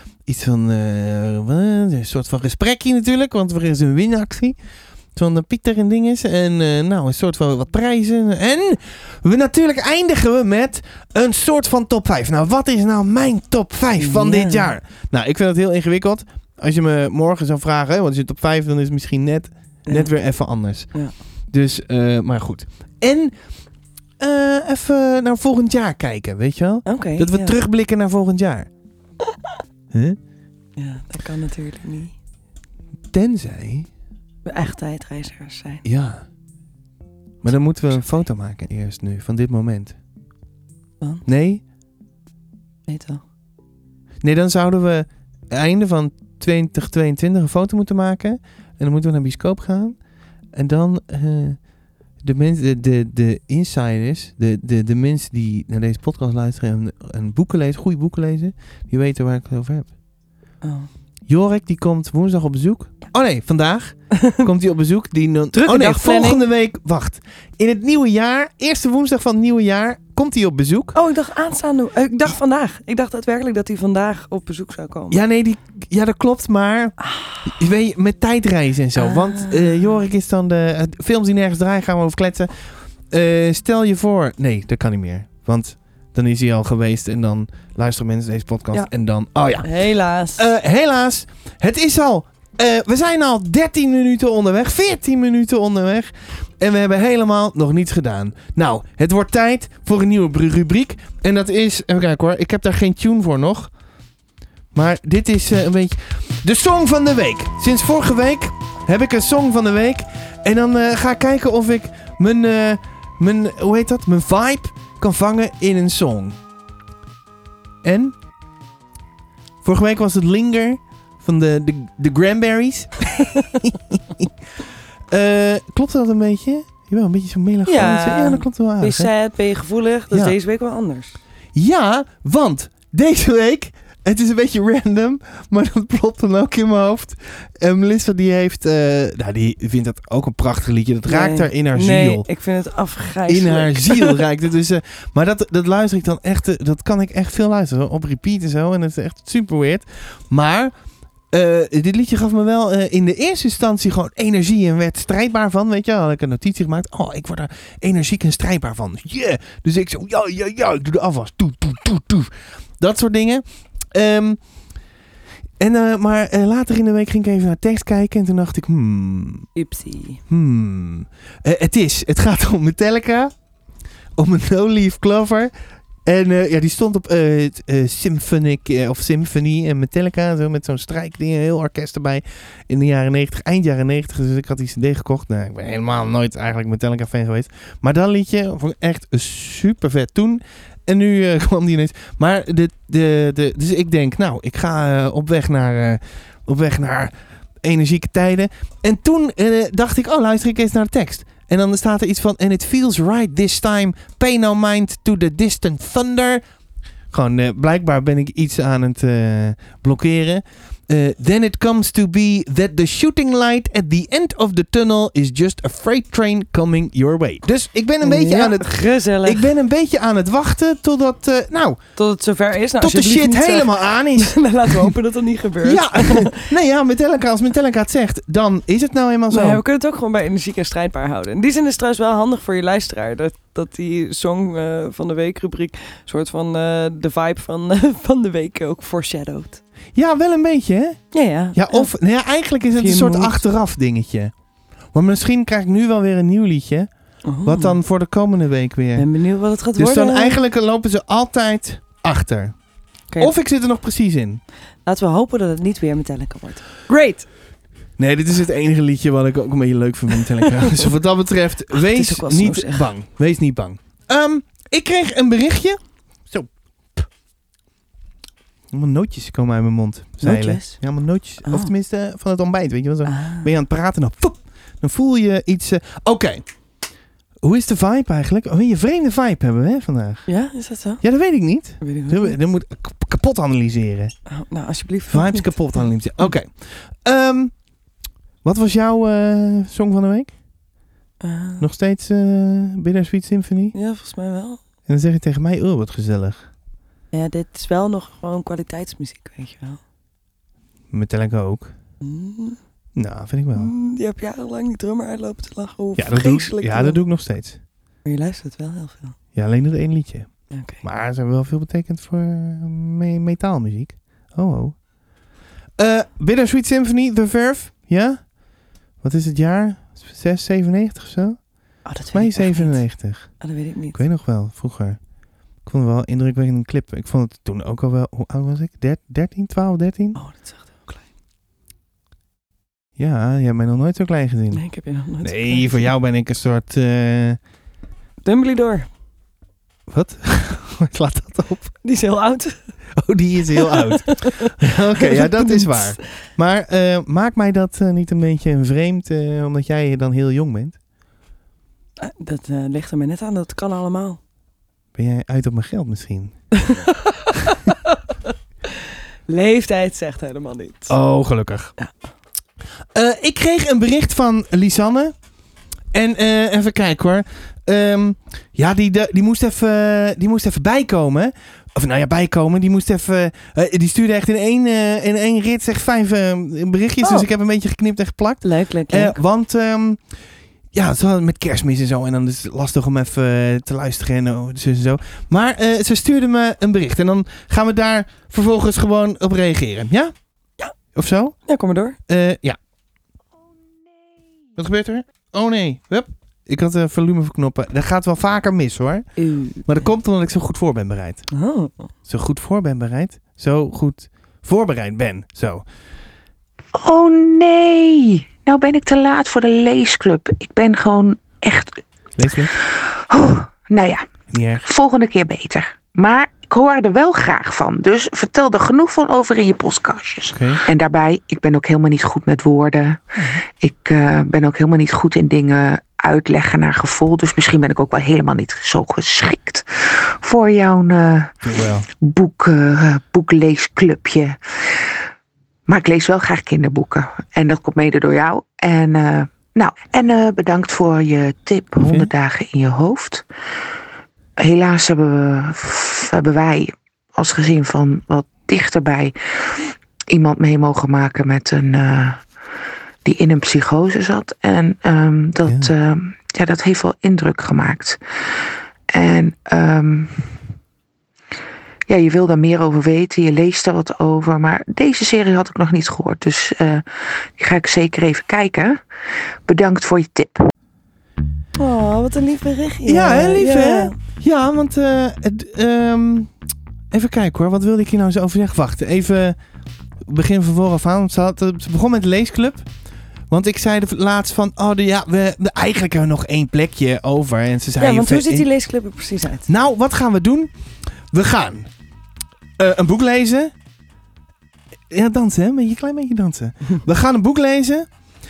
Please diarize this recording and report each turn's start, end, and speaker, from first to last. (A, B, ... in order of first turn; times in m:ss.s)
0:00.2-0:04.6 A
0:05.2-0:23.4 A
0:14.0-0:14.7 B
0:24.2-0:28.7 A
0:26.9-0:27.6 B
0:29.9-0:30.2 A
0:30.8-0:32.1 B
0:33.1-0:33.9 A
0:34.5-0:35.8 B
0:35.8-0:36.2 A
0:37.4-0:40.0 A
0:41.2-0:41.6 A
0:42.9-0:43.2 B
0:44.2-0:50.0 A
0:50.5-0:51.6 A
0:52.2-0:59.9 A
1:00.6-1:00.9 B
1:01.3-1:11.0 A
1:05.5-1:06.4 B
1:10.9-1:15.2 B
1:15.1-1:29.7 A
1:17.0-1:17.5 B
1:19.0-1:20.0 B
1:29.6-1:30.4 B
1:30.4-1:43.7 A
1:44.7-1:56.4 A
1:57.8-1:58.2 A
1:59.6-2:04.3 A
2:05.1-2:09.1 A
2:07.7-2:11.2 B
2:10.1-2:10.4 A
2:11.5-2:22.3 A
2:21.1-2:24.2 B
2:23.3-2:30.8 A
2:31.3-2:44.4 A
2:45.6-2:49.5 A
2:49.6-2:50.2 B
2:50.3-2:53.3 A
2:54.2-2:55.5 A
2:56.0-3:26.4 A
3:27.1-3:41.8 A
3:38.0-3:39.5 B
3:42.0-3:46.5 B
3:42.8-3:45.0 A
3:45.6-3:49.6 A
3:49.3-3:59.6 B
4:00.0-4:04.3 A
4:01.1-4:01.9 B
4:02.8-4:03.4 B
4:04.9-4:09.1 A
4:07.2-4:07.8 B
4:09.0-4:10.4 B
4:09.7-4:12.6 A
4:13.2-4:14.4 A
4:14.9-4:17.3 B
4:18.0-4:27.0 A
4:20.4-4:20.9 B
4:21.7-4:22.9 B
4:28.7-4:36.4 A
4:30.2-4:30.8 B
4:31.4-4:31.7 B
4:33.0-4:33.5 B
4:37.4-4:40.3 A
4:40.3-4:41.0 B
4:41.0-4:44.2 A
4:41.8-4:42.4 B
4:44.3-4:46.3 B
4:45.1-4:47.6 A
4:48.4-4:50.4 A
4:51.2-4:51.6 B
4:51.6-4:53.8 A
4:53.7-4:54.6 B
4:54.9-4:56.5 A
4:57.1-4:59.8 B
5:00.9-5:01.7 A
5:02.0-5:02.6 B
5:03.0-5:03.7 A
5:03.6-5:07.0 B
5:06.0-5:07.6 A
5:08.0-5:09.2 B
5:09.3-5:14.9 A
5:10.5-5:10.8 B
5:15.8-5:18.4 A
5:19.0-5:25.0 A
5:21.8-5:24.0 B
5:25.6-5:30.2 A
5:30.2-5:31.0 B
5:33.0-5:34.7 A
5:34.5-5:35.9 B
5:35.2-5:37.4 A
5:38.2-5:38.9 B
5:39.9-5:41.7 A
5:41.8-5:42.7 B
5:43.0-5:50.8 A
5:43.6-5:46.0 B
5:52.0-5:54.2 B
5:55.0-5:56.4 A
5:56.6-5:58.0 B
5:59.3-6:01.0 B
6:00.9-6:01.7 A
6:02.9-6:05.2 A
6:05.9-6:20.0 A
6:17.0-6:17.3 B
6:18.4-6:19.2 B
6:20.7-6:30.1 A
6:30.9-6:31.4 A
6:31.5-6:32.0 B
6:32.1-6:32.6 A
6:34.6-6:41.3 A
6:39.2-6:39.9 B
6:41.3-6:41.9 B
6:42.0-6:45.7 A
6:46.8-6:51.8 C
6:52.2-6:52.5 A
6:52.6-6:54.0 C
6:54.3-6:54.6 A
6:54.6-7:11.4 C
7:00.3-7:00.6 A
7:03.2-7:03.4 B
7:11.4-7:11.9 A
7:12.0-7:15.0 C
7:15.7-7:23.2 C
7:21.8-7:22.1 A
7:24.4-7:32.2 C
7:33.0-7:40.4 C
7:41.9-7:48.8 C
7:49.5-7:50.4 C
7:51.6-7:53.9 B
7:52.8-7:56.3 A
7:56.9-7:59.4 A
8:00.0-8:02.7 A
8:03.3-8:08.5 A
8:07.8-8:09.5 B
8:09.5-8:10.5 A
8:11.1-8:11.7 A
8:12.6-8:13.5 A
8:14.9-8:17.9 A